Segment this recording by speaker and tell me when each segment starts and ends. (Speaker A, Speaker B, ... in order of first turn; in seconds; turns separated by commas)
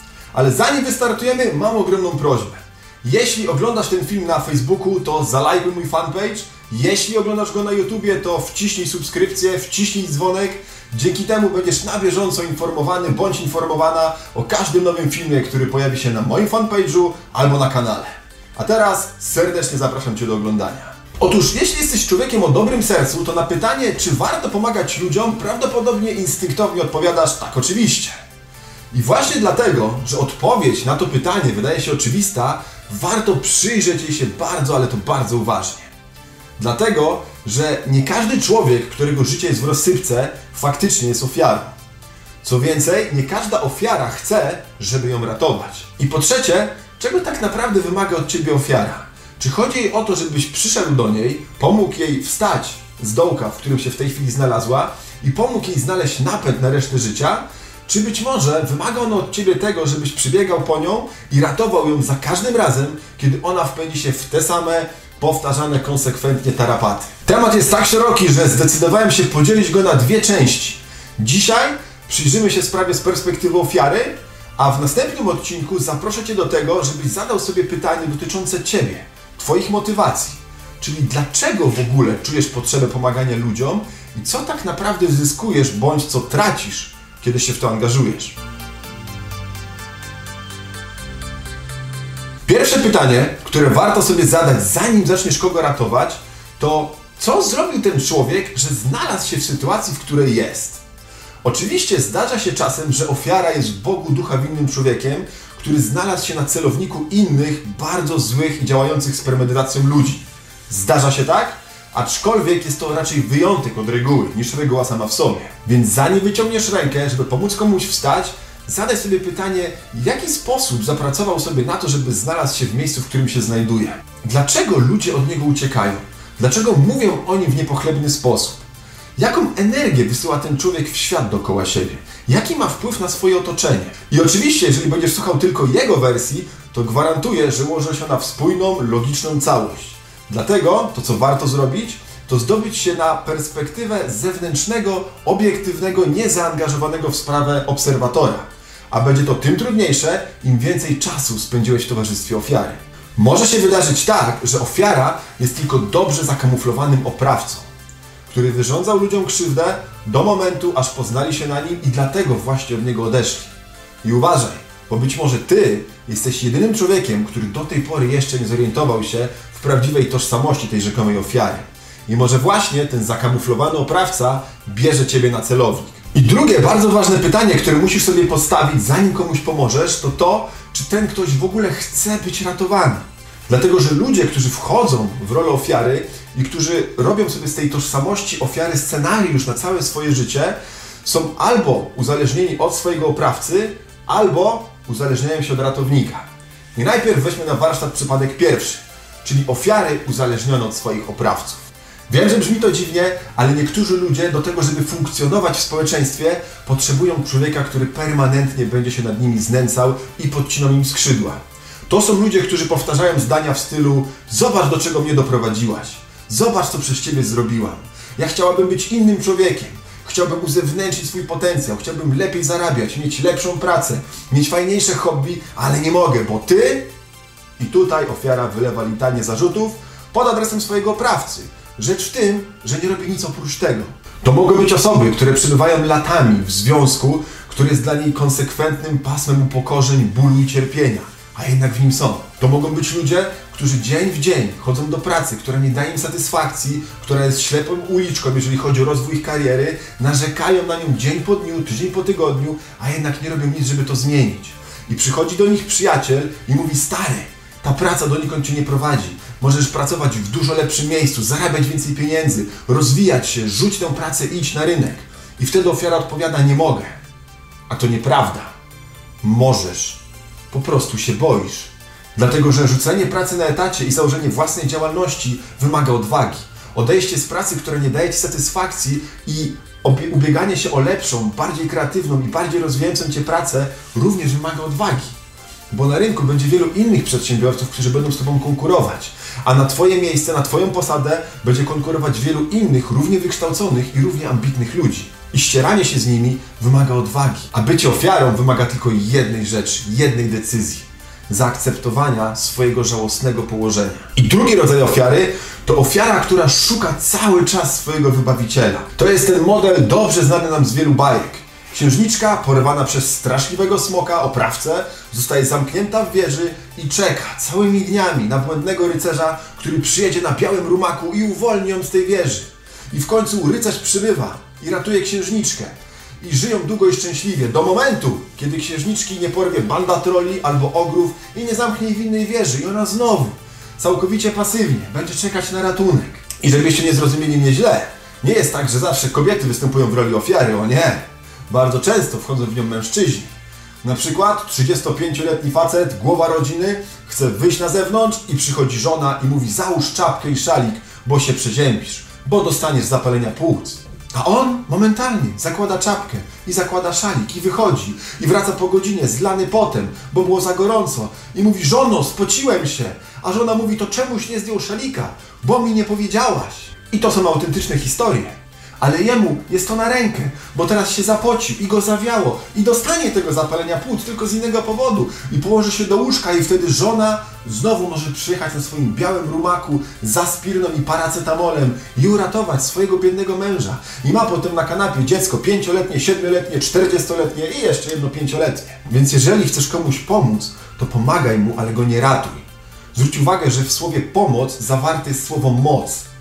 Speaker A: 0.3-28.1, Speaker A: 28.9-35.9, Speaker A: 36.6-41.7, Speaker A: 42.4-88.4, Speaker A: 92.5-100.8, Speaker A: 101.4-128.6, Speaker A: 129.2-157.7, Speaker A: 158.3-226.9, Speaker A: 227.6-266.9, Speaker A: 267.7-268.5, Speaker A: 269.2-270.0, Speaker A: 270.5-285.1, Speaker A: 285.7-343.3, Speaker A: 343.8-396.1